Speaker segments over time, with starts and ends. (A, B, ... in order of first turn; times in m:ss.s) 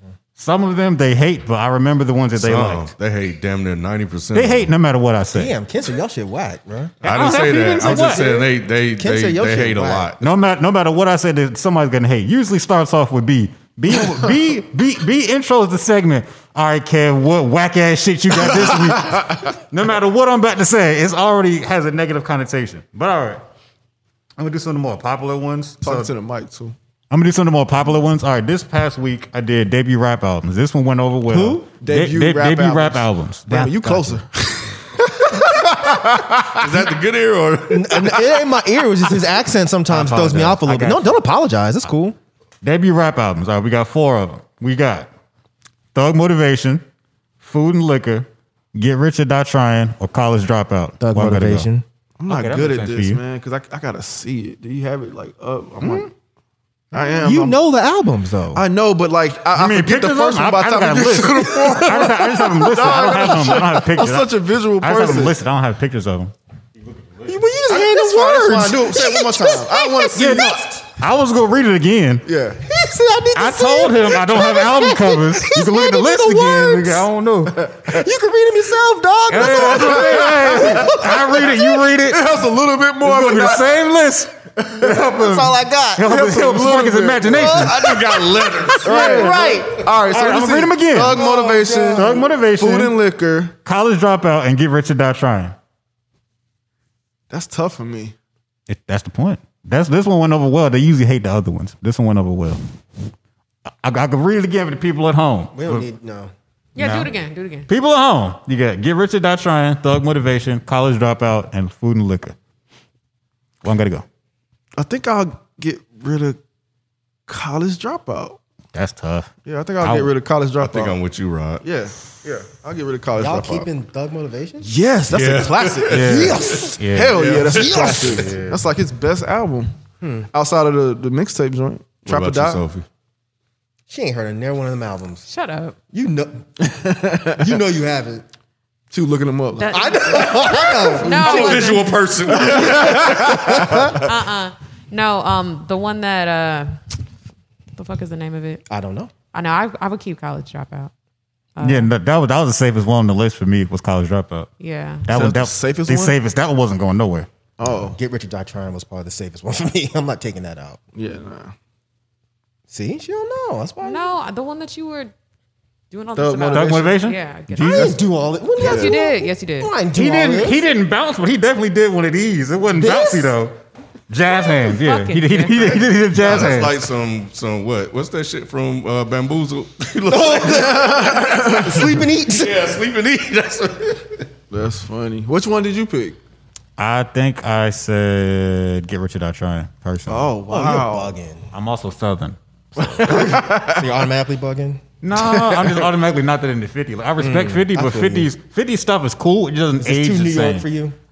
0:00.4-0:02.9 A
0:02.4-0:04.7 B
0:04.3-0:05.5 A
0:05.3-0:07.0 C
0:07.0-0:08.3 A
0:07.0-0:10.2 B
0:07.8-0:10.1 C
0:10.2-0:23.4 A
0:24.4-0:26.1 A
0:25.8-0:26.7 D
0:27.1-0:34.2 A
0:31.3-0:31.6 C
0:31.7-0:36.6 D
0:36.5-0:38.4 B
0:37.7-0:42.2 C
0:39.9-0:41.1 A
0:42.6-0:45.1 A
0:45.9-0:46.8 A
0:47.4-0:51.7 A
0:51.0-0:51.8 C
0:52.2-0:56.1 D
0:52.3-0:53.2 A
0:55.8-0:56.1 A
0:56.9-0:57.6 D
0:57.2-0:58.6 C
0:58.5-1:05.4 D
0:59.5-1:07.4 A
1:07.2-1:10.9 C
1:07.7-1:10.6 D
1:10.1-1:12.2 A
1:12.2-1:12.6 D
1:12.6-1:17.1 C
1:13.3-1:17.7 A
1:17.8-1:21.5 C
1:19.3-1:22.3 A
1:19.7-1:21.0 D
1:22.0-1:23.7 D
1:23.0-1:27.7 A
1:25.0-1:26.3 C
1:26.2-1:27.6 D
1:27.3-1:29.9 C
1:27.4-1:29.0 B
1:28.8-1:33.5 D
1:28.9-1:29.4 A
1:30.0-1:31.2 A
1:30.9-1:32.3 C
1:31.9-1:33.0 A
1:33.6-1:35.5 A
1:37.3-1:38.1 D
1:38.7-1:42.6 A
1:43.8-1:45.8 A
1:45.5-1:46.3 C
1:46.8-1:47.7 E
1:46.8-1:47.1 A
1:47.7-1:52.4 A
1:53.6-1:54.0 A
1:54.8-1:56.4 D
1:57.3-1:58.4 D
1:58.7-2:00.1 A
1:59.4-2:01.0 D
2:00.6-2:01.6 B
2:01.6-2:03.7 D
2:03.2-2:05.3 C
2:04.6-2:09.7 D
2:05.1-2:08.0 B
2:05.9-2:07.3 A
2:06.0-2:08.3 C
2:08.1-2:08.6 A
2:10.0-2:10.3 C
2:10.3-2:12.6 D
2:12.0-2:12.8 B
2:13.9-2:15.2 C
2:15.3-2:15.8 E
2:15.9-2:16.4 C
2:16.6-2:17.4 D
2:17.4-2:18.2 C
2:18.9-2:20.1 D
2:19.6-2:22.0 E
2:19.7-2:21.6 C
2:21.0-2:21.6 D
2:21.1-2:23.8 B
2:22.3-2:23.9 D
2:22.7-2:23.9 C
2:23.9-2:26.8 E
2:27.8-2:28.6 E
2:28.7-2:29.1 C
2:29.3-2:30.9 E
2:31.6-2:31.9 E
2:31.6-2:34.5 A
2:34.6-2:35.1 E
2:35.1-2:37.3 A
2:35.1-2:36.2 D
2:37.6-2:37.9 D
2:37.6-2:40.8 C
2:40.9-2:41.5 D
2:42.7-2:44.1 C
2:43.8-2:45.1 E
2:45.9-2:48.0 E
2:46.1-2:47.0 D
2:46.5-2:48.0 A
2:47.6-2:50.6 C
2:48.6-2:49.7 E
2:48.6-2:48.9 D
2:49.9-2:53.5 A
2:52.8-2:53.3 C
2:54.1-2:56.7 A
2:54.3-2:56.0 E
2:56.1-3:04.2 B
3:00.1-3:02.8 C
3:00.5-3:01.8 D
3:04.5-3:06.2 D
3:06.8-3:10.3 A
3:10.1-3:11.1 D
3:10.5-3:11.5 C
3:11.5-3:13.0 A
3:12.8-3:13.9 D
3:13.0-3:14.8 C
3:15.0-3:20.6 A
3:15.2-3:15.9 D
3:17.2-3:18.3 C
3:19.8-3:20.9 C